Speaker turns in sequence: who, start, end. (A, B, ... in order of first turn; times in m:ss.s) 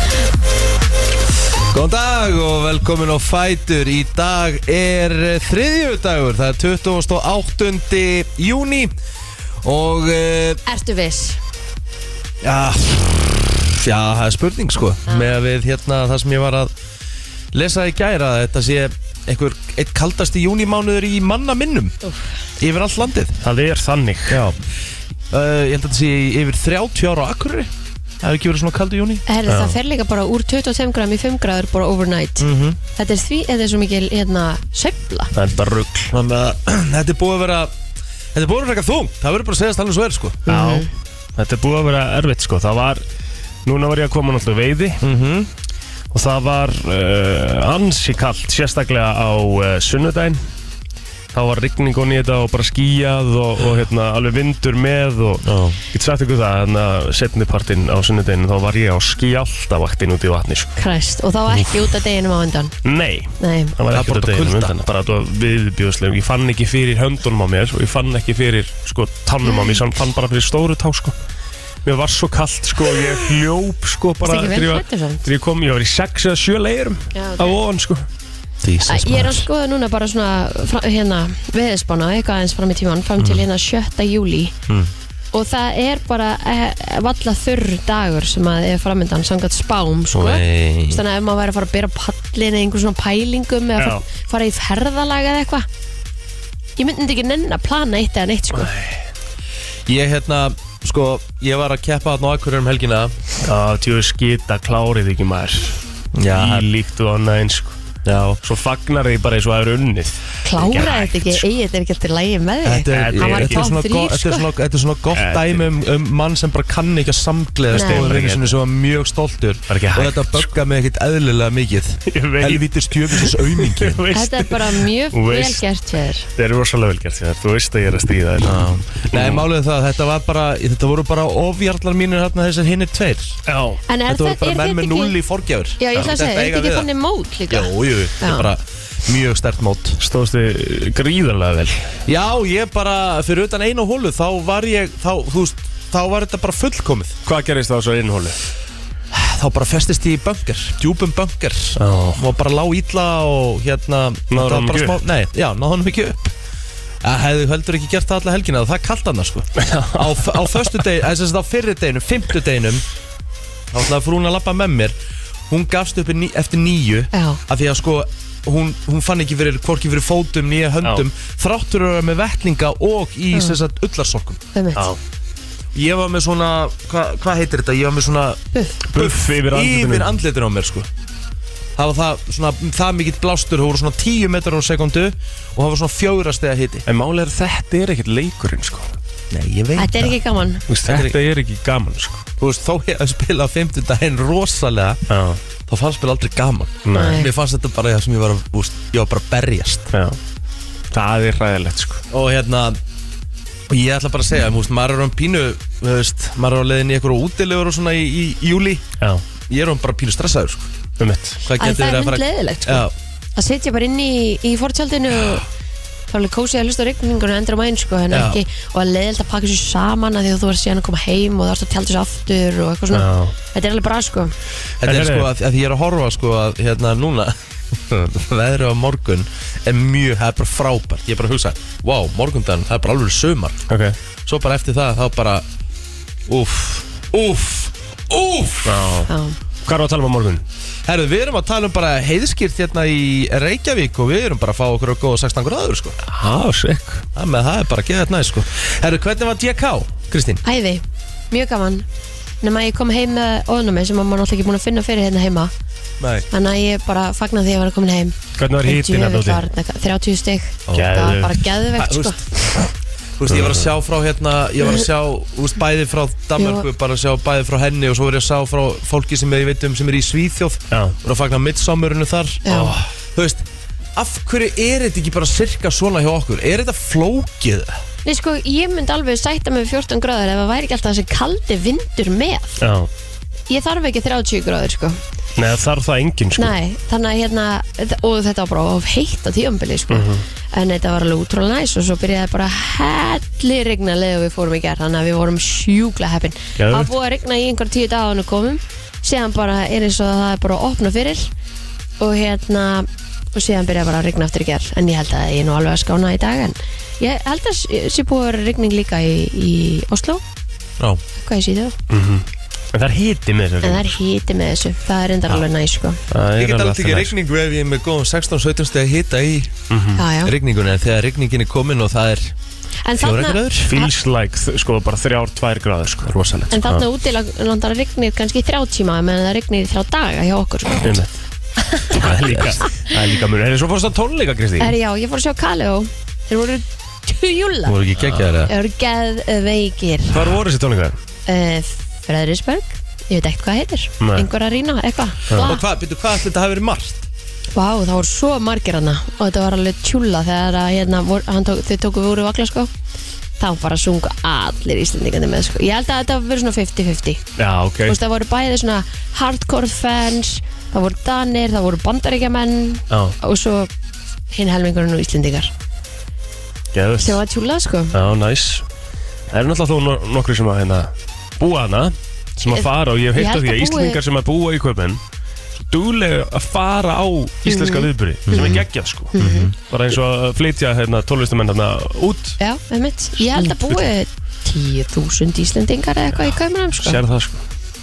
0:01.7-0:09.0 A
0:09.6-0:10.6 A
0:10.7-0:11.4 B
0:12.4-0:16.7 A
0:15.1-0:15.3 B
0:17.5-0:22.0 A
0:22.6-0:23.4 A
0:23.4-0:24.5 C
0:24.3-0:24.6 A
0:25.3-0:29.2 A
0:29.3-0:35.3 B
0:29.5-0:29.8 C
0:32.4-0:32.8 A
0:35.3-0:36.1 C
0:36.1-0:37.7 A
0:38.3-0:40.4 A
0:40.5-0:40.9 B
0:40.5-0:43.0 C
0:43.6-0:45.0 C
0:45.0-0:45.5 A
0:46.1-0:50.4 C
0:51.3-1:00.7 C
0:55.4-0:55.8 A
1:00.8-1:02.8 B
1:02.8-1:11.2 C
1:03.4-1:03.7 B
1:03.9-1:04.7 A
1:09.4-1:09.8 B
1:11.8-1:18.0 C
1:14.2-1:15.3 B
1:17.1-1:17.6 B
1:18.6-1:19.5 A
1:18.9-1:24.6 B
1:23.2-1:23.4 A
1:25.3-1:35.7 B
1:30.1-1:31.0 A
1:33.8-1:34.0 C
1:36.8-1:38.7 B
1:38.5-1:39.0 C
1:39.9-1:43.2 A
1:43.4-1:47.8 C
1:46.2-1:46.7 A
1:48.0-1:48.4 A
1:48.4-1:51.4 C
1:50.4-1:54.5 B
1:52.6-2:04.0 A
1:52.9-1:53.7 C
1:55.1-1:55.7 C
1:57.7-1:58.1 B
1:57.7-1:58.6 C
1:59.7-2:00.5 C
2:02.1-2:05.6 C
2:04.1-2:06.3 B
2:06.4-2:09.5 C
2:08.4-2:13.4 A
2:13.5-2:13.8 C
2:13.9-2:15.2 B
2:14.1-2:16.9 A
2:15.8-2:18.5 B
2:17.5-2:20.0 A
2:20.0-2:22.0 C
2:22.1-2:27.2 A
2:27.2-2:28.4 C
2:29.1-2:36.3 A
2:31.8-2:32.2 C
2:34.3-2:35.0 C
2:37.0-2:42.8 A
2:39.6-2:40.8 C
2:43.7-2:45.0 A
2:45.5-2:54.4 A
2:47.1-2:47.4 B
2:54.5-2:54.9 B
2:55.7-3:00.9 A
2:58.9-3:00.2 C
3:01.8-3:06.8 A
3:06.9-3:08.9 C
3:09.3-3:10.2 A
3:09.8-3:10.7 B
3:10.7-3:12.2 C
3:10.8-3:11.2 A
3:12.4-3:15.0 A
3:15.1-3:15.4 C
3:15.7-3:19.9 A
3:16.9-3:17.3 C
3:16.9-3:17.3 B
3:19.9-3:20.2 C
3:20.9-3:22.0 C
3:22.1-3:22.8 A
3:23.7-3:28.9 A
3:29.5-3:30.7 A
3:31.0-3:31.4 C
3:31.4-3:33.0 A
3:31.6-3:35.5 B
3:36.1-3:44.3 B
3:38.1-3:38.4 A
3:42.9-3:43.3 C
3:44.8-3:53.6 A
3:44.8-3:45.3 C
3:53.7-3:54.0 C
3:54.3-3:55.5 A
3:56.3-3:58.8 A
3:58.6-3:59.1 C
3:59.1-3:59.4 B
3:59.6-4:00.4 C
4:00.9-4:06.0 A
4:06.0-4:07.1 C
4:07.2-4:10.4 A
4:10.4-4:11.9 B
4:12.4-4:15.5 B
4:16.0-4:16.3 A
4:16.3-4:22.2 B
4:18.4-4:19.4 C
4:20.7-4:21.1 A
4:20.7-4:21.5 C
4:21.8-4:22.7 A
4:23.2-4:33.4 A
4:23.3-4:23.7 C
4:26.4-4:26.7 B
4:30.7-4:31.0 C
4:32.5-4:32.8 B
4:32.5-4:32.8 C
4:34.0-4:37.7 A
4:38.0-4:42.6 B
4:42.6-4:42.9 C
4:43.5-4:45.0 B
4:45.4-4:46.6 C
4:46.4-5:01.3 B
4:49.9-4:50.2 C
4:56.6-4:56.9 C
5:02.0-5:10.2 B
5:11.2-5:11.8 B
5:11.9-5:13.9 C
5:13.6-5:16.0 B
5:16.1-5:17.1 C
5:16.4-5:19.6 A
5:19.7-5:20.0 C
5:20.0-5:20.3 B
5:20.2-5:22.4 A
5:22.8-5:23.9 B
5:23.0-5:23.8 A
5:23.7-5:26.9 C
5:26.0-5:26.6 A
5:26.5-5:30.9 B
5:30.8-5:31.1 C
5:31.7-5:32.0 B
5:31.8-5:34.8 C
5:32.0-5:32.6 A
5:34.6-5:37.8 B
5:37.7-5:38.5 A
5:38.5-5:40.2 B
5:40.1-5:41.0 C
5:41.3-5:45.6 B
5:44.0-5:44.3 C
5:45.4-5:47.1 A
5:47.6-5:52.7 B
5:53.4-5:57.2 B
5:57.4-5:58.0 C
5:57.9-6:03.7 B
6:02.9-6:03.2 C
6:04.3-6:05.5 B
6:06.7-6:07.2 C
6:07.0-6:07.9 B
6:07.9-6:08.6 C
6:09.3-6:15.0 C
6:12.5-6:14.0 B
6:15.7-6:22.4 C
6:17.5-6:18.6 B
6:18.3-6:18.6 A
6:19.1-6:19.5 B
6:19.2-6:19.6 A
6:22.4-6:27.0 B
6:23.2-6:23.9 C
6:26.2-6:27.4 C